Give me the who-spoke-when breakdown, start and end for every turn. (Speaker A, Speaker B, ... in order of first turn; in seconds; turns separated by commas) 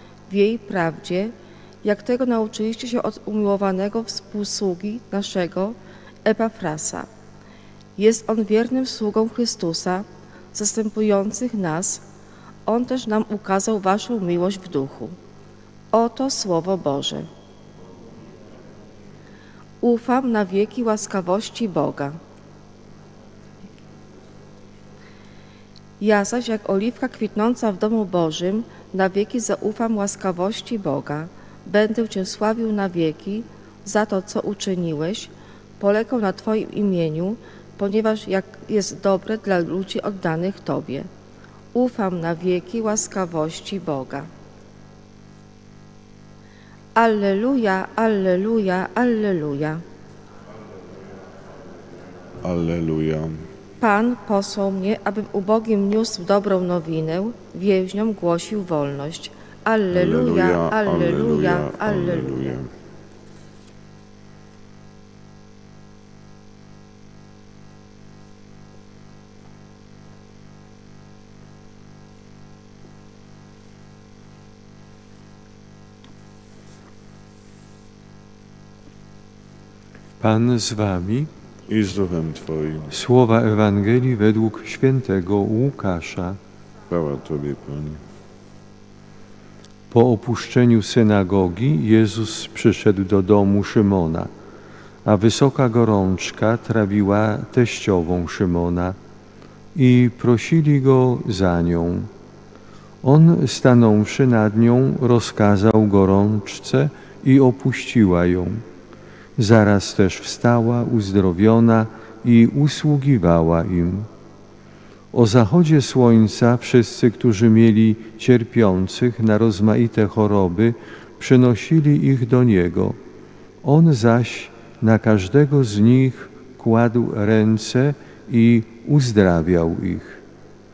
Speaker A: 0.3-7.1, Speaker A: 8.0-12.0, Speaker A: 12.7-15.2, Speaker A: 15.9-17.3, Speaker A: 19.8-22.2, Speaker A: 26.0-41.1, Speaker A: 41.7-44.3, Speaker A: 47.0-49.8, Speaker B: 52.4-53.4, Speaker A: 53.8-62.6, Speaker B: 59.9-62.7, Speaker C: 80.2-81.3, Speaker B: 81.7-83.0, Speaker C: 82.9-86.4, Speaker B: 86.9-88.0, Speaker C: 89.9-94.3, Speaker C: 95.0-99.0, Speaker C: 99.7-102.1, Speaker C: 103.0-108.6, Speaker C: 109.4-114.1, Speaker C: 115.1-123.0, Speaker C: 123.6-130.2